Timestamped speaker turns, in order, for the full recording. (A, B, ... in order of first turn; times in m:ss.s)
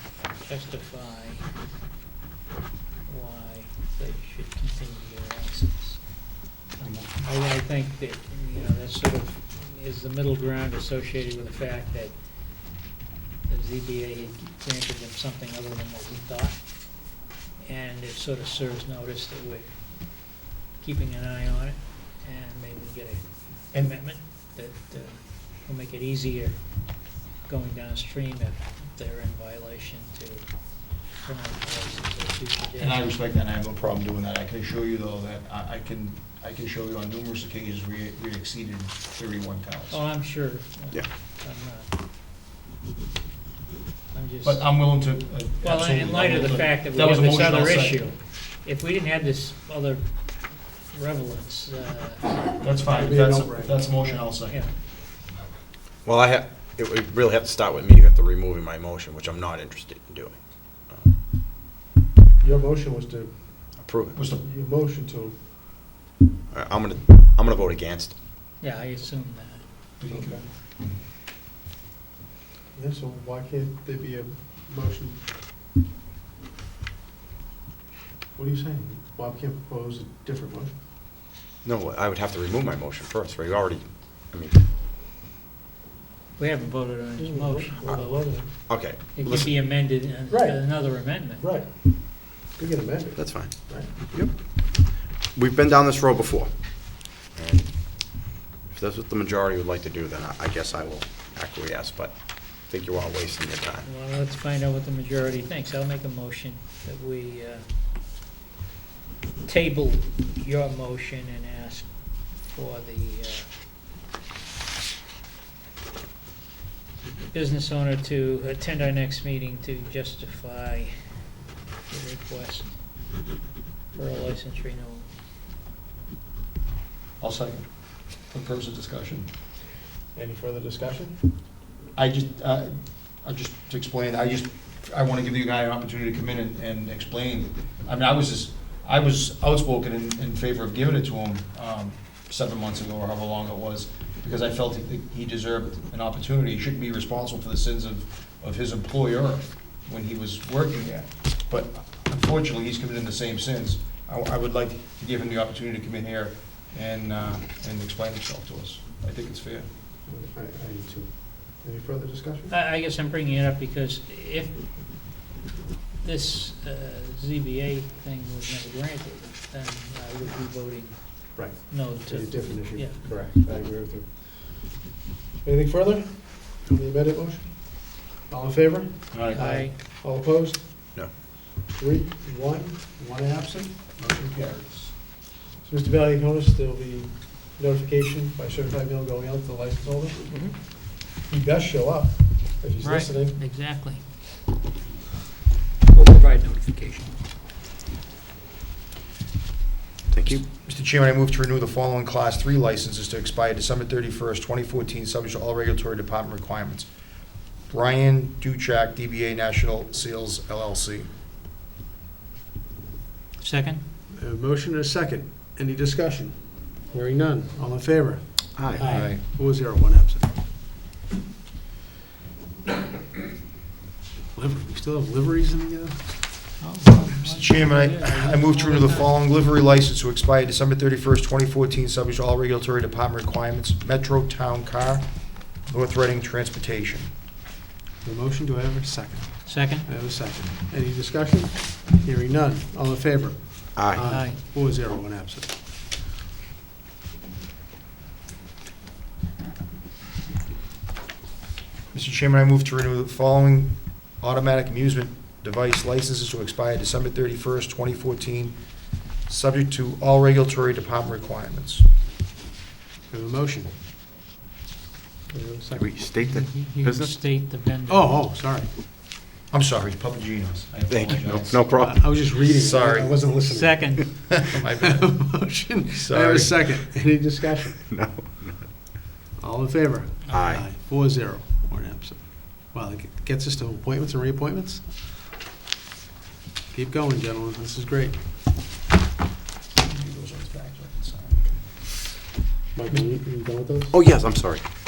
0:00.4-0:01.4 A
0:03.0-0:06.3 A
0:06.8-0:07.2 B
0:07.2-0:12.8 A
0:13.5-0:33.1 A
0:32.8-0:40.0 B
0:39.9-0:41.9 A
0:44.1-0:44.7 A
0:44.4-0:48.0 B
0:45.6-0:52.6 A
0:52.6-0:54.6 B
0:52.9-0:53.8 C
0:53.9-0:54.7 A
0:56.0-1:01.1 D
1:02.4-1:05.4 C
1:03.8-1:04.2 D
1:04.1-1:04.4 B
1:06.5-1:08.2 D
1:08.6-1:09.6 A
1:10.0-1:10.4 B
1:10.1-1:10.4 C
1:12.7-1:15.2 C
1:18.3-1:20.8 C
1:21.6-1:24.6 D
1:26.4-1:27.8 A
1:27.2-1:28.8 C
1:27.8-1:29.6 D
1:29.1-1:31.5 A
1:30.3-1:33.9 C
1:33.2-1:43.9 D
1:43.8-1:47.6 A
1:49.4-1:53.5 A
1:57.3-2:01.3 A
2:01.8-2:02.8 A
2:03.9-2:05.1 A
2:07.2-2:09.3 B
2:10.1-2:11.2 C
2:11.9-2:39.7 B
2:40.0-2:42.5 C
2:42.5-2:44.7 A
2:46.0-2:53.3 A
2:51.3-2:54.9 C
2:55.4-3:10.7 C
2:59.1-2:59.4 B
2:59.3-2:59.7 A
3:04.1-3:04.9 B
3:10.3-3:10.6 A
3:11.3-3:13.3 C
3:12.8-3:14.1 A
3:15.9-3:17.2 A
3:20.1-3:20.4 D
3:20.3-3:26.9 B
3:27.4-3:31.1 B
3:33.4-3:33.8 A
3:34.1-3:40.3 C
3:38.5-3:39.0 D
3:38.8-3:39.1 A
3:38.8-3:39.2 B
3:44.3-3:46.3 C
3:46.6-3:49.1 A
3:47.1-3:57.1 B
3:58.0-4:05.6 C
3:59.4-3:59.9 A
4:03.8-4:04.0 D
4:04.0-4:04.4 A
4:11.9-4:21.8 B
4:23.1-4:23.8 C
4:25.3-4:26.0 C
4:25.7-4:27.1 D
4:26.1-4:28.2 A
4:27.9-4:28.7 C
4:29.5-4:31.6 B
4:30.9-4:32.4 D
4:31.6-4:37.8 C
4:32.5-4:33.2 B
4:33.4-4:34.3 A
4:34.5-4:35.4 B
4:35.9-4:36.7 B
4:37.9-4:38.7 D
4:39.4-4:45.0 C
4:40.3-4:40.6 D
4:46.7-4:48.3 C
4:49.8-4:51.6 B
4:52.7-4:54.0 C
4:53.9-4:54.7 D